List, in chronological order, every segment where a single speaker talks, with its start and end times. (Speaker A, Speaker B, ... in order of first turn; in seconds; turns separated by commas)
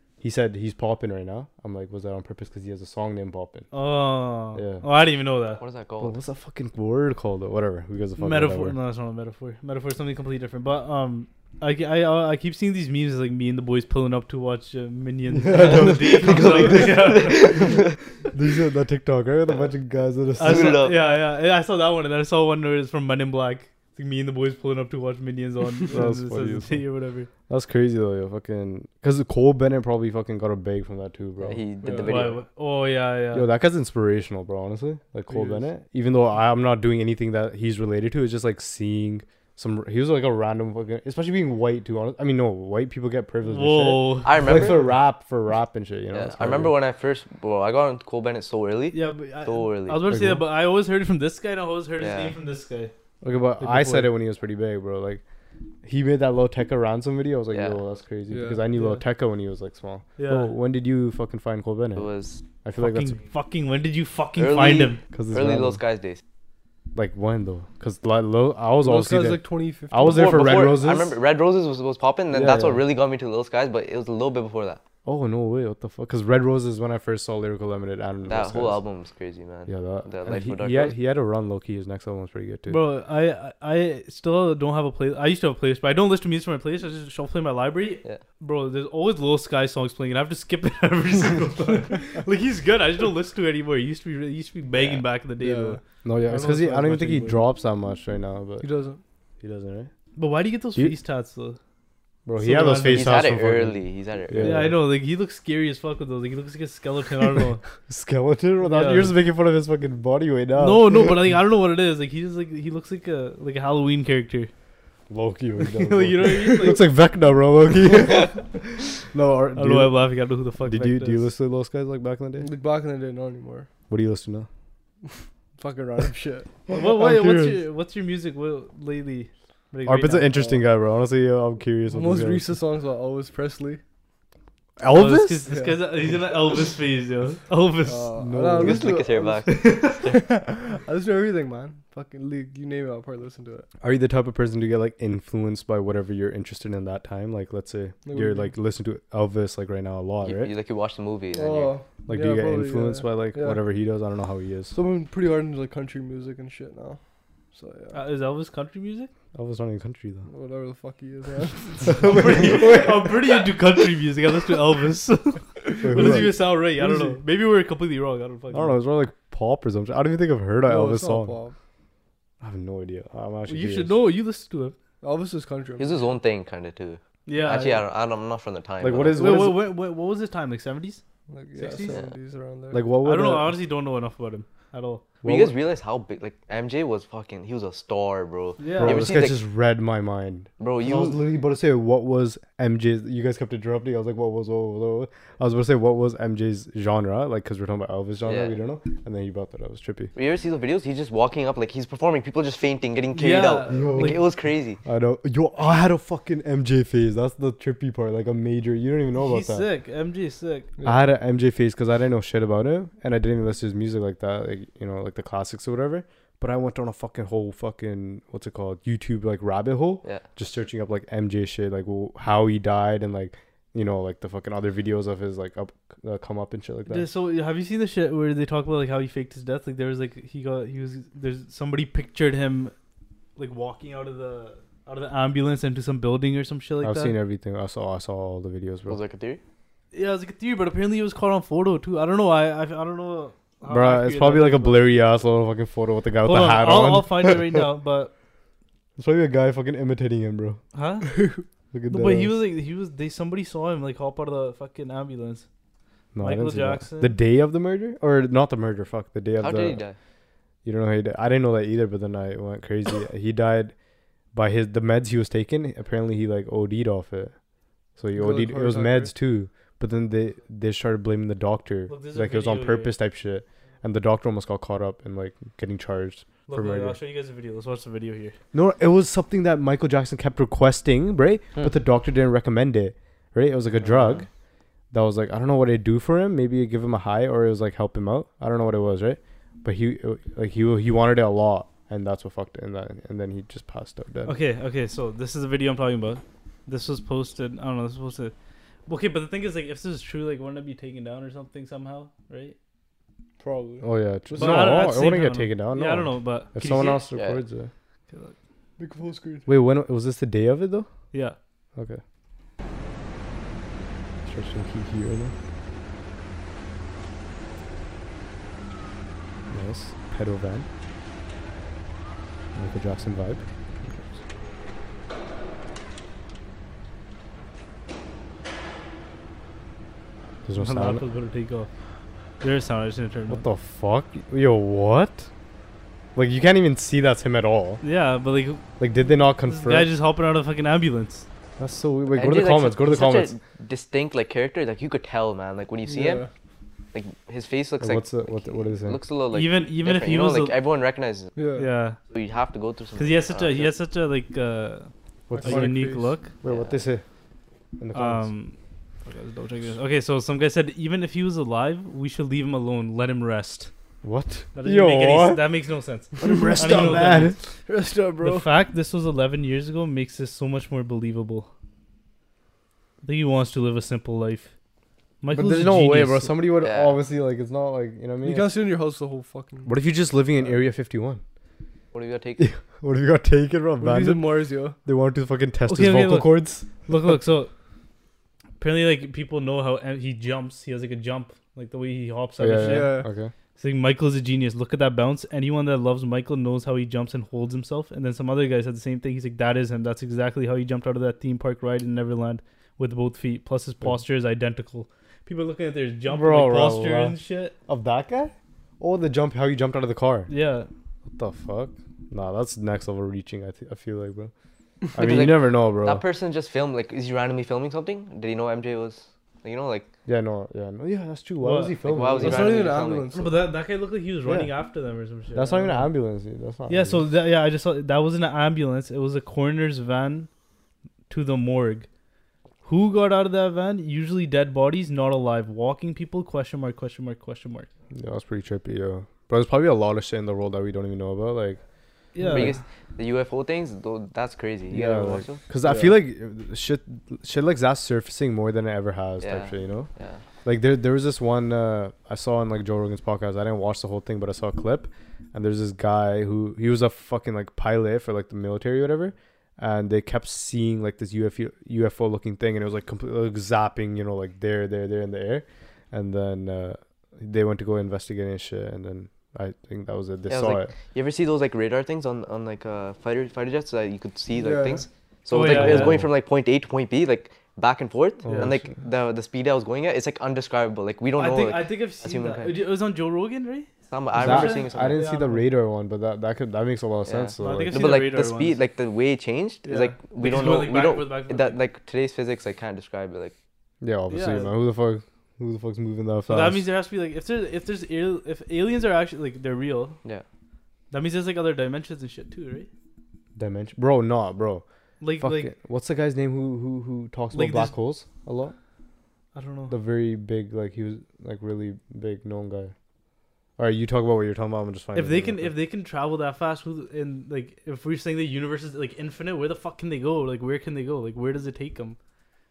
Speaker A: 0.2-3.7, Speaker B: 3.7-5.6, Speaker A: 4.5-4.8, Speaker C: 5.6-6.2, Speaker A: 6.0-8.8, Speaker B: 8.2-17.8, Speaker A: 15.4-17.7, Speaker C: 16.2-17.9, Speaker A: 18.3-20.8, Speaker C: 20.4-21.0, Speaker B: 20.4-27.3, Speaker A: 25.9-26.8, Speaker A: 27.5-31.6, Speaker C: 31.4-32.4, Speaker D: 31.8-32.3, Speaker B: 32.0-33.5, Speaker A: 33.3-46.7, Speaker D: 35.3-35.6, Speaker B: 43.4-44.7, Speaker C: 44.2-44.9, Speaker C: 46.1-50.1, Speaker B: 48.9-52.9, Speaker A: 50.1-50.4, Speaker C: 52.0-52.4, Speaker A: 53.2-55.2, Speaker B: 53.6-54.1, Speaker A: 55.8-62.1, Speaker C: 57.5-57.8, Speaker D: 58.3-58.6, Speaker B: 58.8-59.0, Speaker B: 60.2-60.5, Speaker C: 62.0-62.4, Speaker A: 62.6-63.2, Speaker B: 62.8-65.0, Speaker C: 64.4-66.2, Speaker A: 65.1-65.8, Speaker A: 66.9-71.2, Speaker D: 68.8-70.7, Speaker C: 70.0-74.8, Speaker A: 72.3-72.8, Speaker A: 75.0-78.8, Speaker C: 78.2-81.0, Speaker A: 79.7-82.8, Speaker B: 82.7-95.8, Speaker C: 94.7-95.0, Speaker D: 95.4-97.4, Speaker A: 96.0-98.7, Speaker D: 98.6-99.0, Speaker A: 99.4-99.9, Speaker B: 100.2-101.6, Speaker A: 102.2-104.8, Speaker B: 102.4-103.2, Speaker C: 102.9-104.7, Speaker B: 104.4-107.6, Speaker A: 107.9-111.2, Speaker B: 108.6-109.2, Speaker B: 110.6-114.5, Speaker A: 115.1-120.0, Speaker B: 115.7-116.8, Speaker D: 116.4-116.8, Speaker B: 119.6-121.3, Speaker A: 120.6-122.5, Speaker D: 122.4-123.7, Speaker A: 123.9-124.5, Speaker D: 125.1-126.5, Speaker A: 126.7-127.6, Speaker B: 126.7-130.6, Speaker A: 129.8-132.5, Speaker D: 131.9-133.8, Speaker A: 134.8-135.4, Speaker B: 134.9-138.1, Speaker D: 135.5-135.9, Speaker D: 137.8-143.7, Speaker A: 138.2-139.0, Speaker C: 138.5-140.2, Speaker B: 139.5-140.0, Speaker A: 143.8-150.5, Speaker D: 148.1-148.5, Speaker C: 150.2-151.8, Speaker D: 151.3-153.6, Speaker A: 152.1-154.8, Speaker D: 154.7-157.0, Speaker D: 157.5-158.0, Speaker B: 157.9-159.1, Speaker A: 159.3-160.3, Speaker D: 160.3-162.9, Speaker A: 161.9-162.7, Speaker B: 161.9-168.8, Speaker A: 165.8-166.4, Speaker D: 165.9-167.2, Speaker A: 168.5-171.4, Speaker D: 170.7-171.6, Speaker A: 172.4-174.0, Speaker B: 173.5-174.8, Speaker D: 175.0-176.0, Speaker C: 175.8-179.2, Speaker B: 177.3-177.9, Speaker A: 178.8-179.6, Speaker B: 179.2-181.0, Speaker D: 181.3-182.8, Speaker B: 181.6-181.9, Speaker A: 182.7-183.5, Speaker B: 183.1-185.1, Speaker A: 185.2-185.6, Speaker C: 185.2-189.4, Speaker B: 188.6-189.2, Speaker A: 188.7-200.1, Speaker C: 190.6-191.2, Speaker C: 198.2-198.6, Speaker C: 200.2-204.8, Speaker B: 203.1-204.2, Speaker A: 203.7-204.2, Speaker A: 204.8-209.7, Speaker B: 209.2-210.7, Speaker A: 210.8-227.1, Speaker B: 226.9-232.7, Speaker B: 233.4-237.2, Speaker A: 236.8-239.0, Speaker C: 238.9-239.4, Speaker B: 239.9-244.9, Speaker A: 243.7-247.4, Speaker B: 246.2-248.1, Speaker A: 249.0-250.6, Speaker B: 250.7-251.2, Speaker D: 251.1-251.4, Speaker A: 251.7-252.3, Speaker B: 251.9-255.5, Speaker A: 256.1-259.8, Speaker B: 256.2-257.2, Speaker C: 259.4-260.0, Speaker A: 260.6-263.7, Speaker A: 264.3-267.3, Speaker A: 268.0-277.0, Speaker D: 268.2-269.1, Speaker B: 271.9-272.9, Speaker B: 276.5-278.4, Speaker A: 278.5-284.3, Speaker C: 283.9-284.2, Speaker A: 284.9-294.4, Speaker B: 294.3-298.3, Speaker B: 298.9-302.6, Speaker D: 303.4-304.9, Speaker A: 303.8-307.7, Speaker B: 304.4-307.1, Speaker C: 307.1-307.4, Speaker D: 308.8-309.5, Speaker A: 309.5-310.9, Speaker B: 311.1-311.4, Speaker A: 311.8-312.0, Speaker A: 314.2-315.3, Speaker A: 319.5-320.7, Speaker A: 322.6-324.0, Speaker A: 330.5-331.0, Speaker B: 330.6-331.7, Speaker B: 332.4-333.4, Speaker A: 333.3-335.3, Speaker A: 336.2-337.8, Speaker B: 337.8-341.3, Speaker A: 338.8-339.9, Speaker A: 341.6-343.3, Speaker C: 342.2-346.2, Speaker D: 345.9-346.3, Speaker C: 346.9-351.3, Speaker A: 347.8-349.0, Speaker B: 349.3-350.6, Speaker D: 351.4-351.7, Speaker B: 351.6-352.0, Speaker C: 352.1-353.7, Speaker B: 353.0-356.3, Speaker A: 355.3-355.9, Speaker D: 355.4-356.1, Speaker A: 356.4-357.0, Speaker C: 356.4-356.8, Speaker A: 357.8-358.3, Speaker B: 357.9-358.6, Speaker B: 359.1-363.7, Speaker A: 364.0-365.4, Speaker B: 364.6-367.4, Speaker A: 366.2-367.4, Speaker D: 366.3-368.5, Speaker B: 368.2-371.5, Speaker B: 373.0-374.5, Speaker B: 375.2-376.4, Speaker A: 375.3-378.6, Speaker C: 376.6-377.0, Speaker D: 378.2-379.8, Speaker A: 379.7-381.2, Speaker C: 381.9-382.4, Speaker A: 382.4-386.9, Speaker D: 383.8-384.8, Speaker B: 385.7-387.5, Speaker B: 388.6-393.0, Speaker A: 392.4-393.3, Speaker D: 392.6-393.1, Speaker B: 393.6-407.6, Speaker A: 406.1-407.2, Speaker A: 407.7-410.3, Speaker B: 410.3-410.7, Speaker A: 411.1-414.3, Speaker A: 414.9-416.0, Speaker C: 415.0-419.9, Speaker A: 420.1-422.7, Speaker B: 421.4-421.7, Speaker C: 421.9-423.2, Speaker D: 422.2-423.4, Speaker B: 423.1-425.9, Speaker A: 424.2-424.6, Speaker A: 425.3-427.1, Speaker B: 426.7-430.3, Speaker B: 431.1-431.9, Speaker B: 432.6-437.7, Speaker A: 437.9-441.6, Speaker B: 442.1-442.6, Speaker C: 442.3-445.4, Speaker A: 444.7-449.9, Speaker D: 445.6-445.9, Speaker C: 449.2-450.2, Speaker A: 450.4-470.7, Speaker C: 470.3-482.6, Speaker D: 474.3-474.9, Speaker B: 475.3-476.0, Speaker A: 475.4-476.1, Speaker A: 478.2-478.7, Speaker B: 481.2-485.5, Speaker C: 483.9-485.0, Speaker A: 484.2-487.8, Speaker C: 487.1-493.4, Speaker B: 487.4-488.6, Speaker B: 489.6-491.6, Speaker A: 493.8-496.6, Speaker B: 494.1-494.5, Speaker B: 496.3-500.0, Speaker B: 500.9-502.7, Speaker A: 503.4-504.6, Speaker B: 505.0-505.5, Speaker A: 505.2-508.6, Speaker B: 507.3-507.8, Speaker B: 509.4-509.8, Speaker A: 509.7-512.7, Speaker A: 513.6-515.5, Speaker B: 515.0-522.0